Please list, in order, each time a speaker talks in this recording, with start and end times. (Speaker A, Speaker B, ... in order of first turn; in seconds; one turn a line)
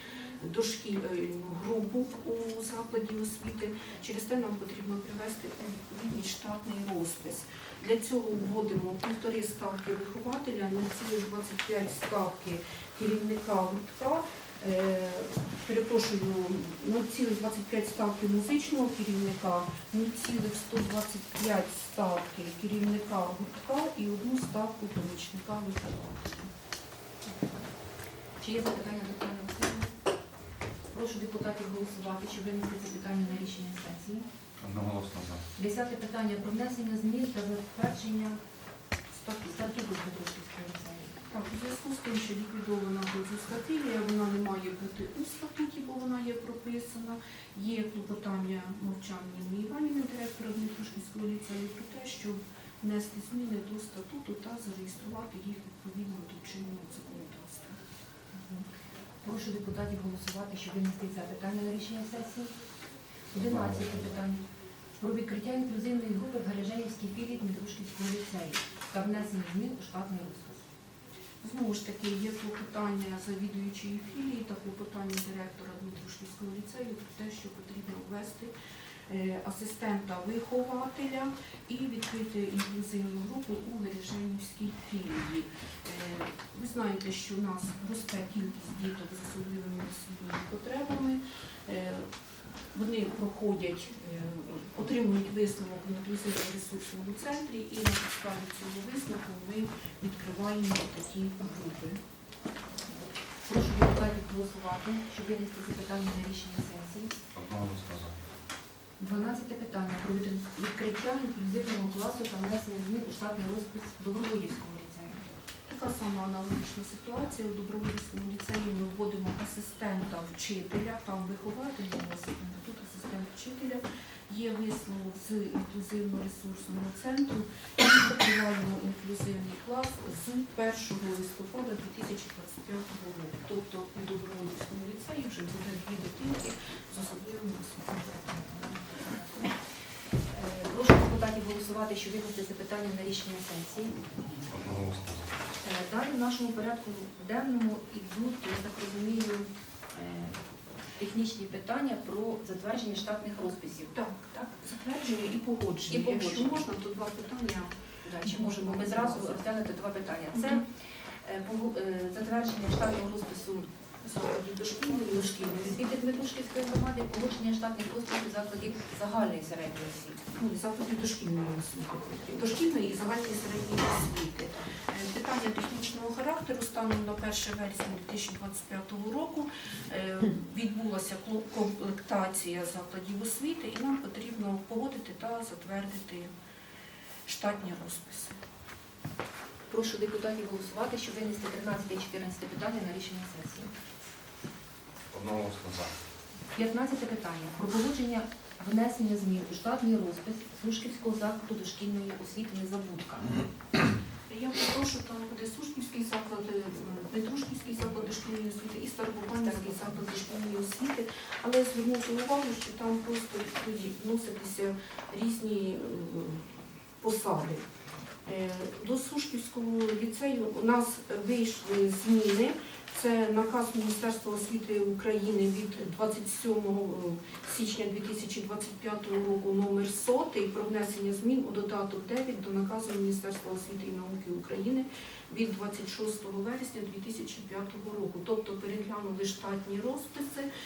Speaker A: 0.4-26.5
Speaker B: 27.3-27.7
Speaker B: 28.4-29.9
Speaker B: 30.9-34.3
Speaker C: 34.6-35.5
Speaker B: 35.6-38.4
Speaker A: 39.2-39.9
Speaker B: 39.4-41.2
Speaker A: 41.3-57.8
Speaker B: 58.3-58.7
Speaker B: 59.2-62.5
Speaker C: 63.3-64.1
Speaker B: 63.3-64.4
Speaker B: 65.0-70.7
Speaker A: 71.4-78.5
Speaker A: 79.1-92.1
Speaker A: 92.7-102.0
Speaker B: 103.5-107.2
Speaker C: 107.3-108.2
Speaker B: 109.0-115.3
Speaker A: 115.7-139.5
Speaker B: 140.3-144.0
Speaker C: 144.5-145.3
Speaker B: 145.6-150.4
Speaker B: 151.0-154.0
Speaker A: 153.9-159.4
Speaker B: 155.9-156.7
Speaker B: 158.0-160.7
Speaker A: 160.3-160.6
Speaker B: 161.2-163.7
Speaker A: 164.0-165.9
Speaker B: 165.1-170.2
Speaker A: 170.3-186.3
Speaker A: 187.2-188.4
Speaker B: 189.7-193.7
Speaker C: 195.1-195.9
Speaker B: 196.6-203.4
Speaker A: 204.3-217.7
Speaker B: 209.4-210.0
Speaker A: 218.3-240.5